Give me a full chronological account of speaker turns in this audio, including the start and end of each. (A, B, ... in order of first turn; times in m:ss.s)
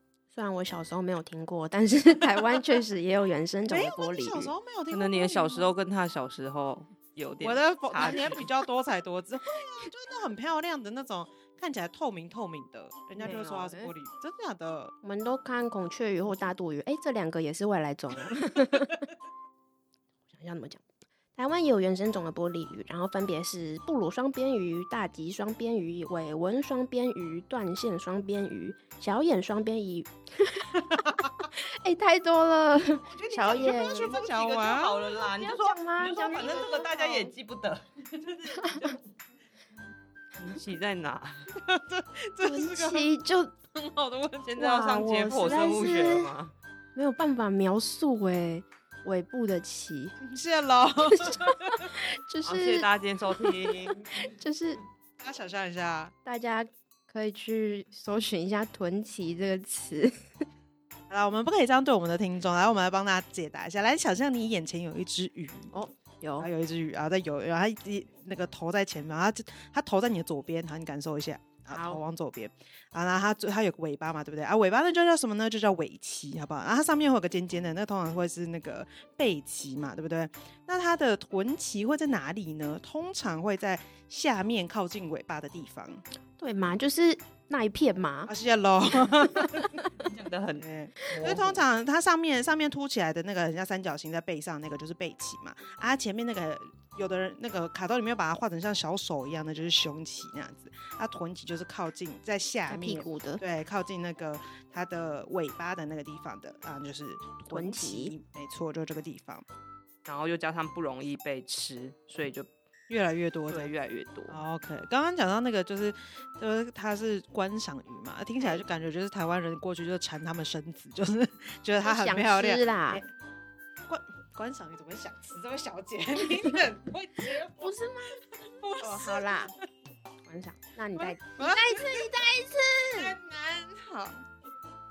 0:00.3-0:04.6 A
0:03.7-0:05.7 B
0:04.9-0:08.5 C
0:07.4-0:14.9 B
0:13.1-0:14.0 A
0:15.0-0:19.0 A
0:20.3-0:34.2 A
0:33.1-0:35.8 B
0:33.6-0:38.7 C
0:35.3-0:37.3 A
0:38.5-0:38.9 A
0:40.4-0:41.5 C
0:41.6-0:43.1 B
0:42.4-0:43.6 A
0:43.7-0:44.7 B
0:44.4-0:46.5 C
0:44.6-0:46.3 A
0:46.9-0:50.2 A
0:50.2-0:51.8 B
0:51.1-0:52.9 A
0:52.4-0:54.1 C
0:53.4-0:54.8 A
0:55.2-0:56.1 B
0:56.2-1:00.3 A
1:01.1-1:05.8 B
1:05.7-1:06.5 A
1:06.4-1:26.0 B
1:11.7-1:12.0 A
1:26.4-1:28.3 A
1:28.3-1:29.8 B
1:29.0-1:29.8 A
1:30.0-1:31.5 C
1:30.6-1:49.4 B
1:31.0-1:31.5 A
1:42.7-1:43.4 A
1:47.5-1:48.2 A
1:50.1-1:52.5 C
1:52.9-1:53.7 B
1:53.5-1:54.4 C
1:54.3-2:03.1 B
2:01.8-2:03.0 A
2:03.9-2:07.7 B
2:07.6-2:08.2 A
2:08.4-2:09.6 B
2:08.8-2:09.5 A
2:10.2-2:13.2 A
2:11.0-2:12.2 B
2:12.9-2:14.2 B